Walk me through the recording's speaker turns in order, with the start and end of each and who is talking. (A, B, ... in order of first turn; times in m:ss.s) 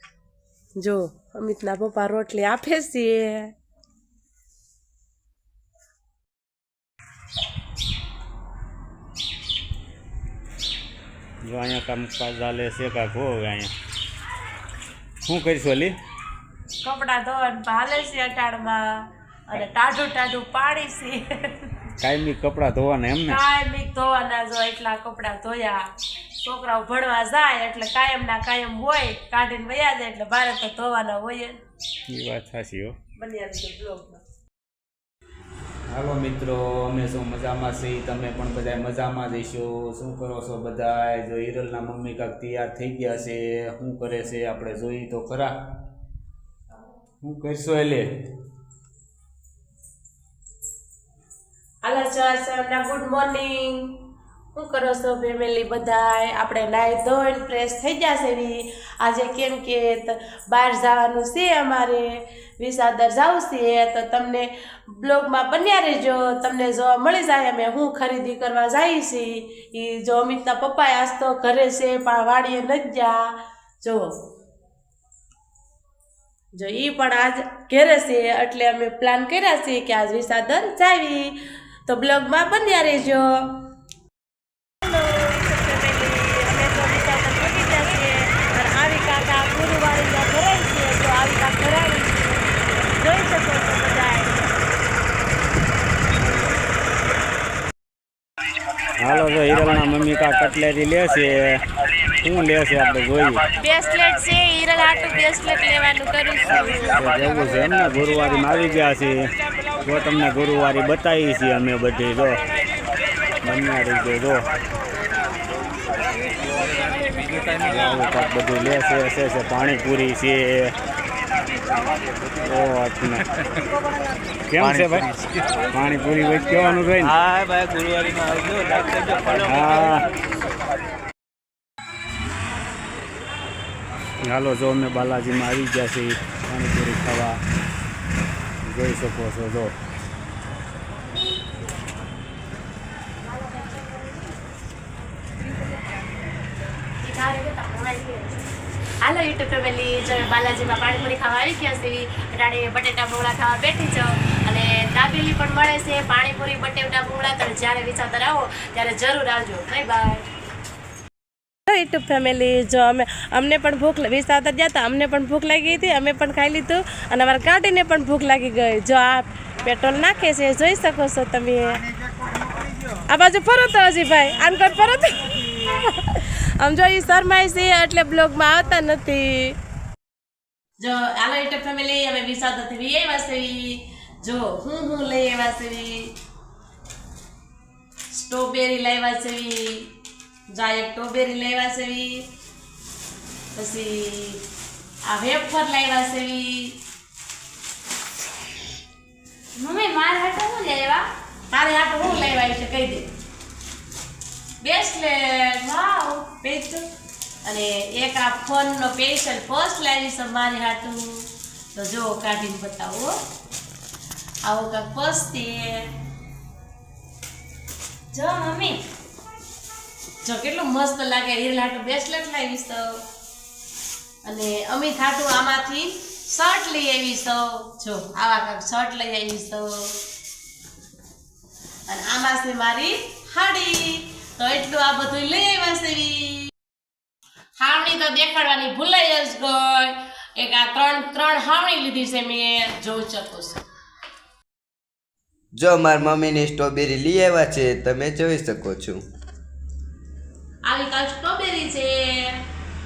0:00.8-0:03.5 A
0:11.4-0:13.7 B
0:15.2-0:16.0 B
0:16.8-0:21.9 A
0:22.0-0:23.4 B
0:23.3-0:25.9 A
0:26.4-0:31.6 A
0:32.0-0:33.0 B
0:33.2-0:34.2 A
0:35.9-0:45.6 B
0:47.2-0:48.1 B
0:51.8-0:54.0 A
0:54.5-1:14.2 A
1:16.5-1:23.6 A
1:24.8-1:34.6 A
1:36.2-1:36.6 B
1:39.0-1:41.6 B
1:42.2-1:43.4 B
1:43.6-1:47.0 A
1:47.0-1:49.2 B
1:49.8-1:52.4 B
1:53.4-1:54.4 B
1:57.6-2:00.7 B
2:02.4-2:03.3 B
2:04.5-2:05.1 B
2:04.6-2:05.3 C
2:05.7-2:07.2 B
2:07.1-2:09.5 C
2:09.4-2:10.0 B
2:14.2-2:17.4 B
2:18.6-2:19.7 B
2:27.0-2:28.4 A
2:29.0-2:40.2 A
2:41.7-2:51.8 A
2:53.1-2:59.6 A
3:00.8-3:06.1 A
3:08.1-3:09.9 A
3:10.5-3:12.3 A
3:13.5-3:14.4 A
3:15.0-3:16.8 A
3:19.6-3:21.0 D
3:21.5-3:23.1 A
3:24.6-3:26.8 A
3:27.4-3:33.2 A
3:34.4-3:35.9 A
3:38.1-3:38.8 D
3:40.2-3:43.0 A
3:44.2-3:50.0 A
3:51.9-3:56.5 A
3:57.6-4:03.6 A
4:05.5-4:09.0 E
4:10.6-4:12.4 A